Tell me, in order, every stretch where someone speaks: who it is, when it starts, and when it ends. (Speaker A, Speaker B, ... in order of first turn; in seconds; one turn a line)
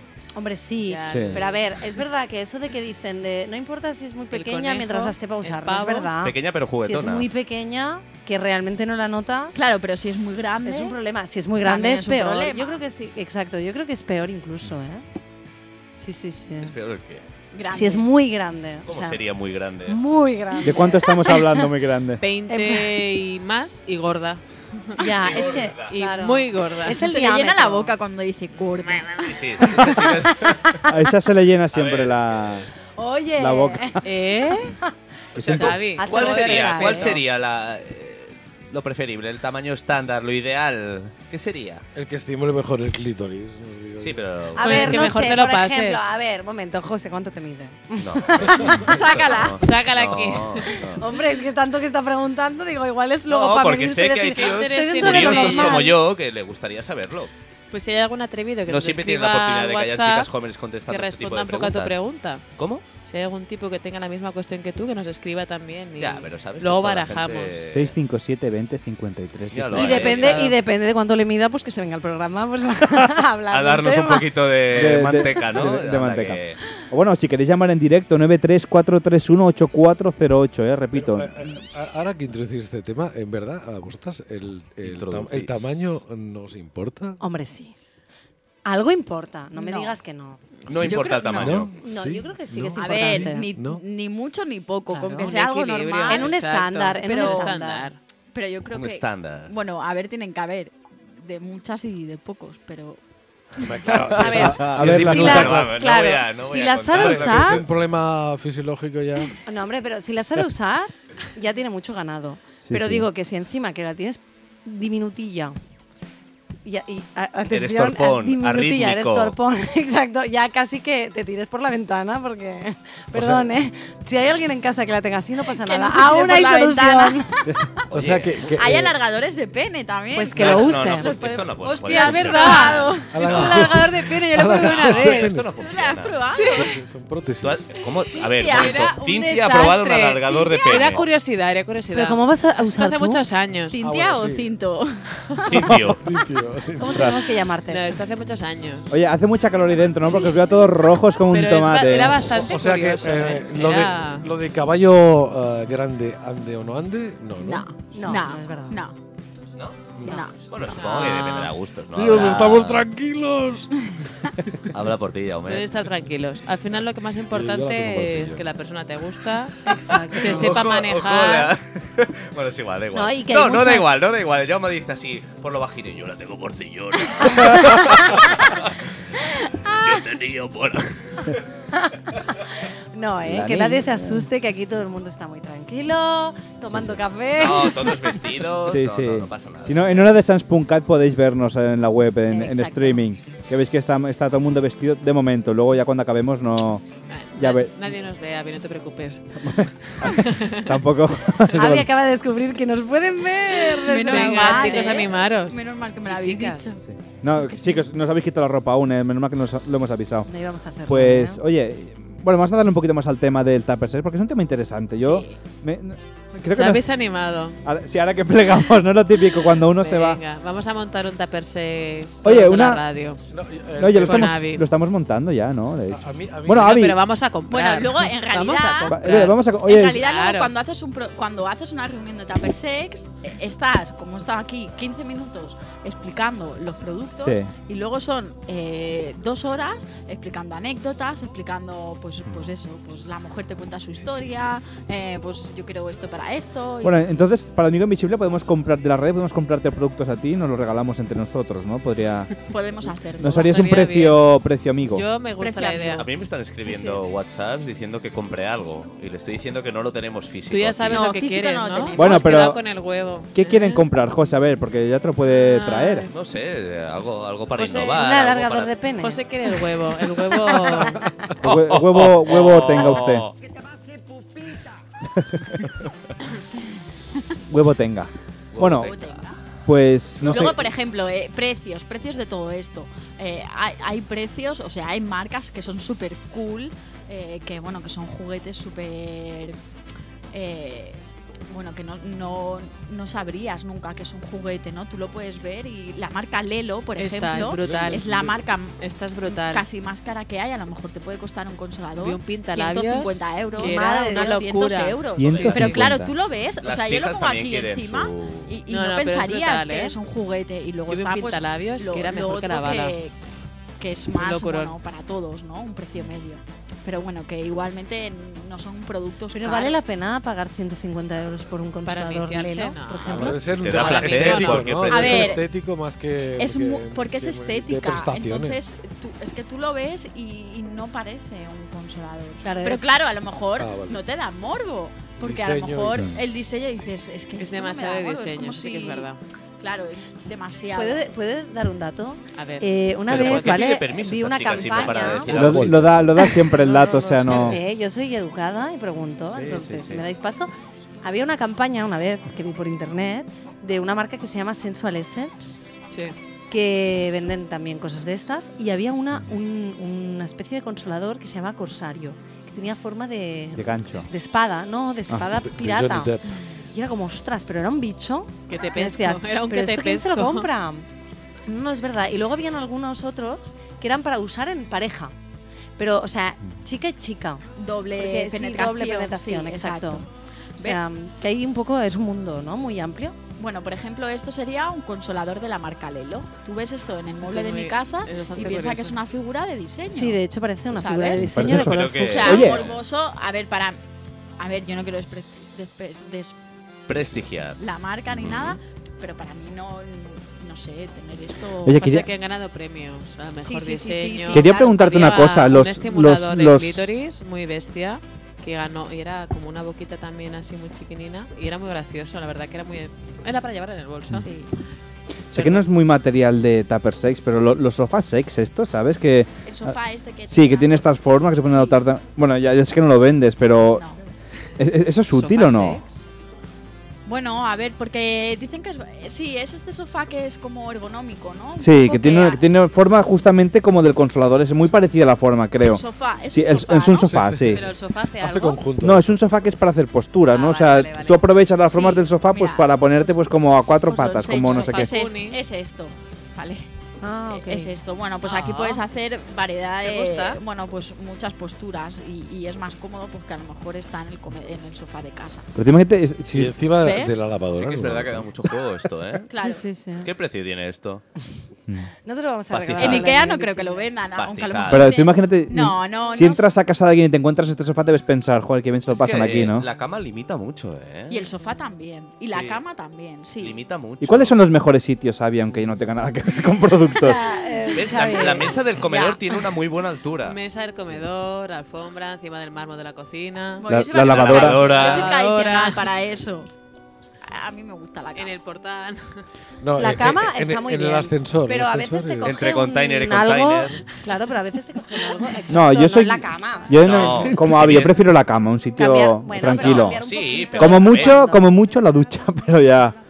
Speaker A: 0.3-9.6
Speaker B: 0.8-1.7
Speaker C: 1.1-1.4
Speaker B: 4.3-6.1
Speaker D: 6.2-7.3
Speaker E: 9.5-11.0
Speaker A: 10.6-15.0
Speaker E: 11.6-12.8
Speaker A: 16.0-16.7
Speaker D: 16.6-17.2
Speaker E: 17.5-18.1
Speaker A: 17.7-19.2
Speaker D: 18.9-20.0
Speaker A: 19.9-21.7
Speaker C: 20.6-22.2
Speaker B: 22.2-24.4
Speaker A: 22.5-23.0
Speaker A: 25.0-27.9
Speaker D: 25.2-25.9
Speaker B: 25.9-27.0
Speaker E: 27.0-29.4
Speaker D: 29.2-30.8
Speaker C: 30.9-32.7
Speaker D: 31.7-32.7
Speaker A: 33.0-34.0
Speaker C: 33.4-34.0
Speaker B: 34.0-34.8
Speaker D: 35.3-41.8
Speaker C: 35.4-35.8
Speaker A: 35.5-37.2
Speaker B: 35.5-37.1
Speaker F: 41.9-44.2
Speaker D: 44.0-45.0
Speaker A: 44.6-48.9
Speaker B: 44.6-46.1
Speaker D: 48.0-51.1
Speaker E: 48.8-49.6
Speaker B: 49.6-50.8
Speaker A: 50.9-55.9
Speaker D: 53.3-57.3
Speaker B: 54.4-55.9
Speaker B: 57.7-60.3
Speaker D: 58.7-62.0
Speaker B: 60.9-62.4
Speaker D: 62.5-62.8
Speaker B: 63.0-67.6
Speaker D: 66.0-67.9
Speaker C: 67.7-70.2
Speaker D: 69.5-70.5
Speaker A: 69.7-74.3
Speaker B: 70.1-70.6
Speaker D: 73.5-76.6
Speaker C: 74.7-81.6
Speaker F: 80.9-87.2
Speaker D: 84.8-85.8
Speaker A: 87.2-87.7
Speaker A: 88.7-90.4
Speaker E: 89.5-90.0
Speaker D: 90.7-91.7
Speaker F: 90.7-93.8
Speaker E: 90.7-91.7
Speaker A: 91.8-93.5
Speaker E: 92.8-96.4
Speaker A: 94.9-95.3
Speaker B: 95.2-98.0
Speaker A: 96.1-97.9
Speaker E: 97.0-97.6
Speaker E: 98.3-103.0
Speaker D: 98.7-99.5
Speaker F: 103.6-105.8
Speaker D: 103.8-107.6
Speaker A: 104.2-107.6
Speaker C: 104.3-105.5
Speaker E: 106.9-107.6
Speaker F: 107.0-109.4
Speaker A: 109.4-115.5
Speaker C: 112.6-113.1
Speaker A: 116.6-127.2
Speaker D: 117.5-119.3
Speaker F: 123.1-123.5
Speaker E: 125.5-127.5
Speaker F: 127.9-128.9
Speaker D: 127.9-128.5
Speaker E: 128.6-133.1
Speaker A: 130.1-131.1
Speaker D: 130.3-133.9
Speaker B: 131.6-135.3
Speaker F: 133.1-135.5
Speaker D: 134.5-136.2
Speaker E: 135.6-136.7
Speaker B: 136.3-136.7
Speaker F: 136.6-137.7
Speaker D: 137.4-141.1
Speaker E: 138.2-139.0
Speaker B: 138.5-143.8
Speaker A: 141.9-143.2
Speaker E: 143.7-144.9
Speaker F: 143.8-144.5
Speaker F: 145.4-147.2
Speaker D: 145.4-146.0
Speaker A: 146.8-147.9
Speaker B: 147.7-148.9
Speaker C: 148.9-152.3
Speaker B: 151.3-154.3
Speaker F: 152.3-157.7
Speaker E: 157.4-158.9
Speaker A: 157.9-158.8
Speaker D: 159.6-159.9
Speaker E: 160.0-160.4
Speaker D: 160.4-162.8
Speaker B: 160.7-161.5
Speaker F: 161.9-164.7
Speaker D: 164.7-165.7
Speaker B: 165.4-169.6
Speaker F: 167.3-168.5
Speaker A: 169.6-170.5
Speaker B: 170.1-171.5
Speaker D: 170.2-178.7
Speaker A: 172.9-173.9
Speaker A: 177.2-178.4
Speaker D: 179.7-181.4
Speaker A: 181.7-182.1
Speaker A: 182.9-188.2
Speaker C: 183.2-184.3
Speaker C: 186.7-187.0
Speaker D: 187.3-190.1
Speaker C: 188.6-196.8
Speaker A: 192.3-193.0
Speaker B: 197.1-200.8
Speaker C: 197.3-197.7
Speaker C: 199.4-201.9
Speaker A: 201.5-205.1
Speaker E: 203.8-206.8
Speaker B: 204.0-206.8
Speaker C: 206.9-210.3
Speaker A: 210.2-211.4
Speaker C: 210.8-216.8
Speaker E: 215.0-215.4
Speaker B: 216.5-217.6
Speaker C: 217.6-220.2
Speaker B: 219.7-223.2
Speaker C: 222.2-222.8
Speaker F: 223.3-224.3
Speaker C: 223.8-227.0
Speaker B: 224.0-224.7
Speaker F: 225.9-226.7
Speaker B: 226.6-230.5
Speaker E: 227.5-229.0
Speaker C: 228.9-230.0
Speaker E: 229.6-247.2
Speaker C: 237.2-237.5
Speaker C: 246.8-252.3
Speaker E: 252.5-253.7
Speaker C: 253.2-255.0
Speaker B: 253.4-254.2
Speaker B: 254.9-256.1
Speaker E: 255.4-256.1
Speaker D: 256.0-261.1
Speaker A: 256.6-257.0
Speaker B: 260.5-263.8
Speaker E: 260.9-262.4
Speaker C: 261.9-262.6
Speaker C: 263.3-266.1
Speaker B: 265.2-266.1
Speaker D: 266.1-268.7
Speaker B: 267.6-268.0
Speaker A: 267.9-269.2
Speaker B: 269.0-271.0
Speaker A: 270.3-270.8
Speaker C: 271.4-273.3
Speaker D: 271.4-273.3
Speaker C: 277.5-278.9
Speaker D: 278.5-279.2
Speaker E: 278.8-279.3
Speaker C: 279.6-280.6
Speaker F: 280.2-280.5
Speaker E: 280.2-289.6
Speaker E: 290.3-313.1
Speaker B: 297.0-299.6
Speaker D: 297.6-297.9
Speaker B: 302.0-305.8
Speaker A: 303.6-304.6
Speaker C: 305.2-306.1
Speaker D: 305.2-305.8
Speaker D: 306.6-308.5
Speaker B: 308.7-310.0
Speaker B: 310.9-313.0
Speaker E: 313.8-319.8
Speaker B: 314.1-314.7
Speaker A: 319.3-323.5
Speaker B: 321.8-324.8
Speaker F: 323.1-328.6
Speaker D: 323.4-325.4
Speaker E: 324.9-325.4
Speaker E: 326.4-339.1
Speaker A: 332.4-333.0
Speaker F: 333.6-334.0
Speaker F: 335.2-336.1
Speaker B: 337.4-339.2
Speaker E: 339.6-341.1
Speaker A: 340.7-345.6
Speaker B: 342.4-343.5
Speaker D: 343.1-346.0
Speaker F: 345.2-346.1
Speaker C: 345.3-347.6
Speaker A: 346.2-350.5
Speaker B: 347.0-347.5
Speaker D: 349.3-350.1
Speaker A: 351.0-355.6
Speaker A: 356.5-366.2
Speaker C: 363.6-364.1
Speaker F: 365.4-366.3
Speaker A: 366.7-370.9
Speaker B: 368.5-370.5
Speaker A: 371.5-375.1
Speaker A: 375.8-380.0
Speaker E: 377.6-380.8
Speaker A: 380.6-383.2
Speaker E: 383.4-391.3
Speaker B: 387.2-389.0
Speaker A: 389.9-392.5
Speaker C: 391.2-392.6
Speaker D: 391.4-392.8
Speaker E: 392.0-393.8
Speaker E: 394.4-396.4
Speaker D: 396.9-397.6
Speaker E: 397.6-401.8
Speaker D: 398.1-398.6
Speaker C: 401.6-402.1
Speaker B: 401.7-414.3
Speaker E: 403.4-404.9
Speaker C: 404.3-406.9
Speaker E: 414.1-414.5
Speaker B: 415.3-415.7
Speaker C: 415.3-419.8
Speaker E: 419.4-421.8
Speaker C: 420.3-423.8
Speaker E: 423.7-424.0
Speaker C: 424.6-425.8
Speaker B: 425.1-426.0
Speaker E: 427.1-432.4
Speaker C: 431.6-437.6
Speaker E: 435.6-437.2
Speaker F: 437.0-439.1
Speaker B: 437.5-438.7
Speaker C: 438.8-444.9
Speaker B: 440.3-441.1
Speaker E: 441.7-443.2
Speaker E: 443.8-446.7
Speaker B: 444.2-445.4
Speaker A: 447.0-447.7
Speaker E: 447.3-455.5
Speaker B: 448.2-448.8
Speaker B: 449.8-450.4
Speaker C: 455.5-456.6
Speaker F: 456.3-458.3
Speaker E: 456.8-457.2
Speaker D: 457.5-459.3
Speaker E: 459.3-459.6
Speaker A: 459.4-460.1
Speaker D: 460.0-461.0
Speaker A: 462.0-463.9
Speaker D: 462.5-463.1
Speaker E: 462.8-466.5
Speaker D: 464.2-464.9
Speaker C: 464.7-469.6
Speaker D: 468.9-471.3
Speaker E: 471.1-473.6
Speaker D: 472.3-472.6
Speaker D: 473.4-474.4
Speaker C: 474.0-477.3
Speaker A: 476.9-479.2
Speaker D: 477.7-480.4
Speaker B: 480.2-483.6
Speaker E: 483.6-486.5
Speaker C: 483.7-484.7
Speaker D: 483.9-485.1
Speaker B: 484.3-485.8
Speaker E: 487.2-488.3
Speaker B: 488.1-489.2
Speaker F: 489.6-492.4
Speaker A: 489.8-497.4
Speaker D: 492.2-493.8
Speaker C: 495.5-502.9
Speaker D: 496.8-497.9
Speaker A: 498.8-501.5
Speaker D: 499.4-501.2